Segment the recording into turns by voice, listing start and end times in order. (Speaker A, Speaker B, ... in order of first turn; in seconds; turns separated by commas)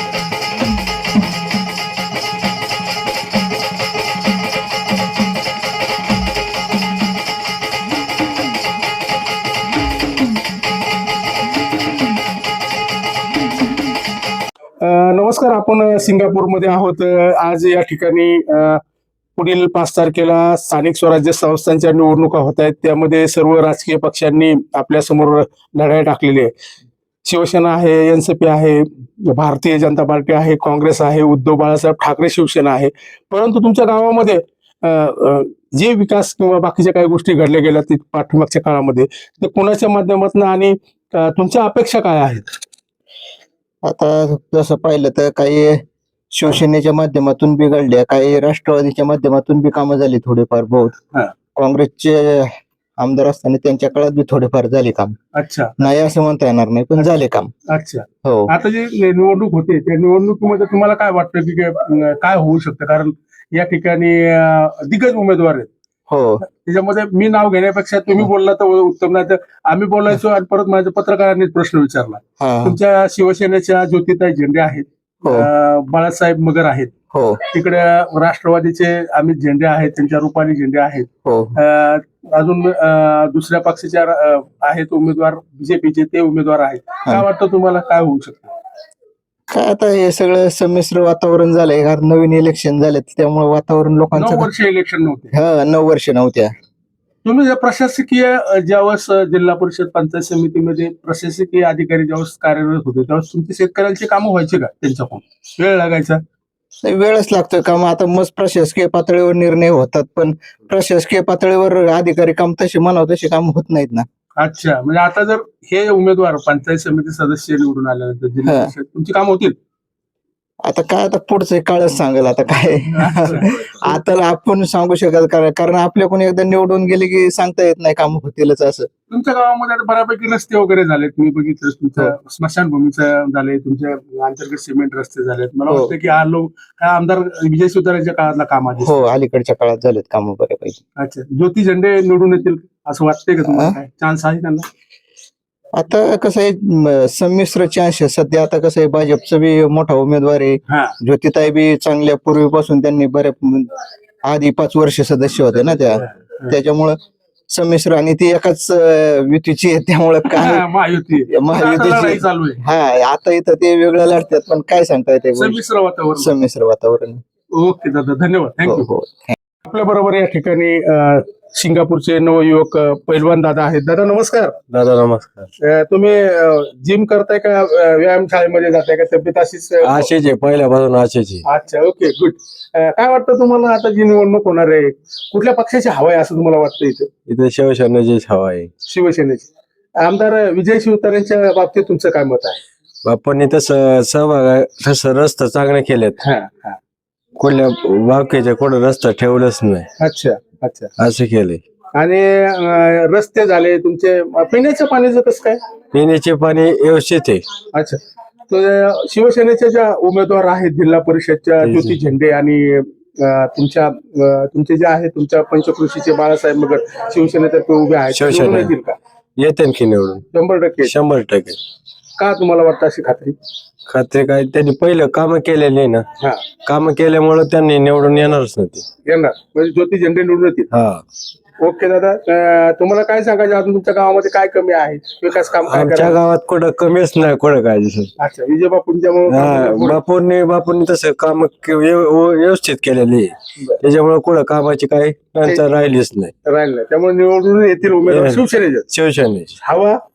Speaker A: 14.8-18.8, Speaker A: 19.4-26.5, Speaker A: 27.2-42.5, Speaker B: 43.8-51.0, Speaker B: 51.5-55.1, Speaker A: 55.3-55.9, Speaker B: 55.8-57.5, Speaker A: 57.7-65.7, Speaker B: 58.2-58.5, Speaker B: 66.1-66.4, Speaker A: 66.5-76.9, Speaker B: 72.4-72.8, Speaker B: 77.1-77.4, Speaker A: 77.5-88.5, Speaker B: 81.2-81.6, Speaker B: 89.5-94.5, Speaker A: 94.2-95.3, Speaker B: 95.3-96.5, Speaker A: 97.2-106.2, Speaker B: 106.8-114.1, Speaker A: 114.4-119.5, Speaker B: 118.4-118.7, Speaker B: 120.6-128.9, Speaker A: 123.0-123.5, Speaker C: 123.3-123.8, Speaker A: 129.1-139.2, Speaker B: 135.7-135.9, Speaker B: 138.8-140.8, Speaker A: 141.0-144.7, Speaker B: 143.5-143.8, Speaker B: 145.7-153.7, Speaker A: 150.7-151.0, Speaker B: 154.2-157.0, Speaker A: 155.6-156.6, Speaker B: 157.5-160.7, Speaker A: 160.3-162.6, Speaker B: 161.3-165.6, Speaker A: 165.4-166.3, Speaker B: 166.2-167.2, Speaker A: 167.6-168.9, Speaker B: 168.6-169.3, Speaker A: 169.6-174.6, Speaker C: 174.7-175.5, Speaker A: 175.6-180.1, Speaker C: 179.8-181.4, Speaker A: 181.5-187.1, Speaker C: 187.3-188.7, Speaker A: 188.9-189.5, Speaker A: 190.0-192.6, Speaker C: 193.1-196.2, Speaker A: 196.2-196.8, Speaker C: 197.4-199.9, Speaker A: 200.0-200.9, Speaker C: 201.0-201.6, Speaker A: 201.9-205.6, Speaker C: 205.9-207.5, Speaker A: 207.7-219.0, Speaker C: 211.6-212.0, Speaker C: 218.1-218.7, Speaker C: 219.4-220.2, Speaker A: 220.3-220.9, Speaker C: 220.8-221.6, Speaker A: 222.2-223.3, Speaker C: 223.9-226.1, Speaker A: 226.2-226.5, Speaker C: 226.7-228.8, Speaker A: 229.1-230.7, Speaker C: 230.7-231.0, Speaker A: 231.6-236.2, Speaker C: 235.7-238.1, Speaker A: 238.2-240.0, Speaker C: 239.3-246.3, Speaker A: 246.4-248.9, Speaker C: 248.0-249.5, Speaker A: 249.6-250.0